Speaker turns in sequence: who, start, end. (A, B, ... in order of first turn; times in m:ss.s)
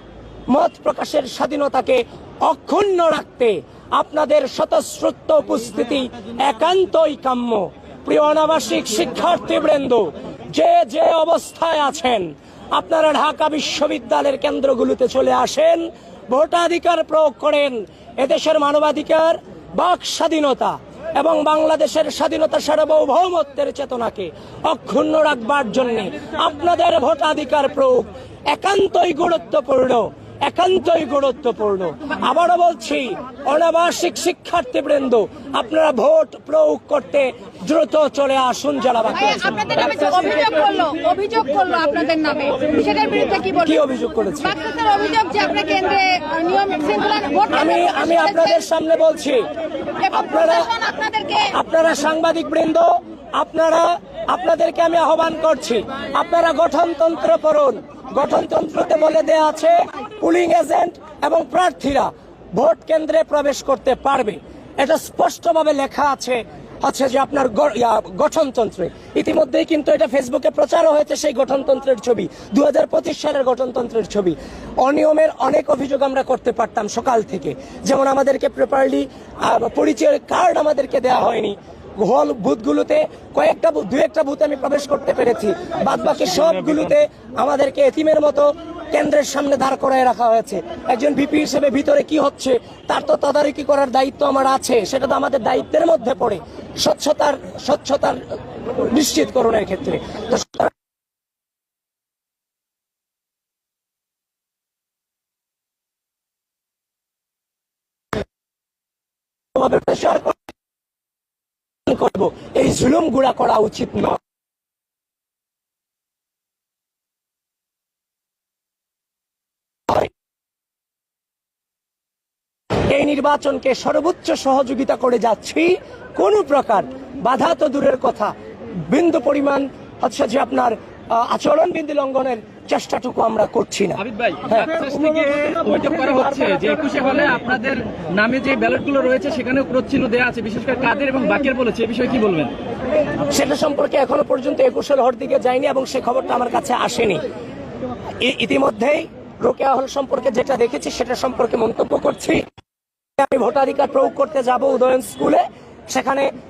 0:00.5-0:39.6 A
0:39.3-0:43.7 B
0:43.6-0:44.6 A
0:44.5-0:48.2 B
0:47.5-0:49.5 A
0:50.0-0:50.8 A
0:50.0-0:51.5 B
0:51.4-1:40.7 A
1:49.6-1:50.4 A
1:51.9-1:54.2 A
2:02.9-2:08.3 A
2:08.9-2:16.6 A
2:14.0-2:22.5 C
2:23.3-2:27.2 A
2:28.2-2:32.4 A
2:33.2-2:36.3 A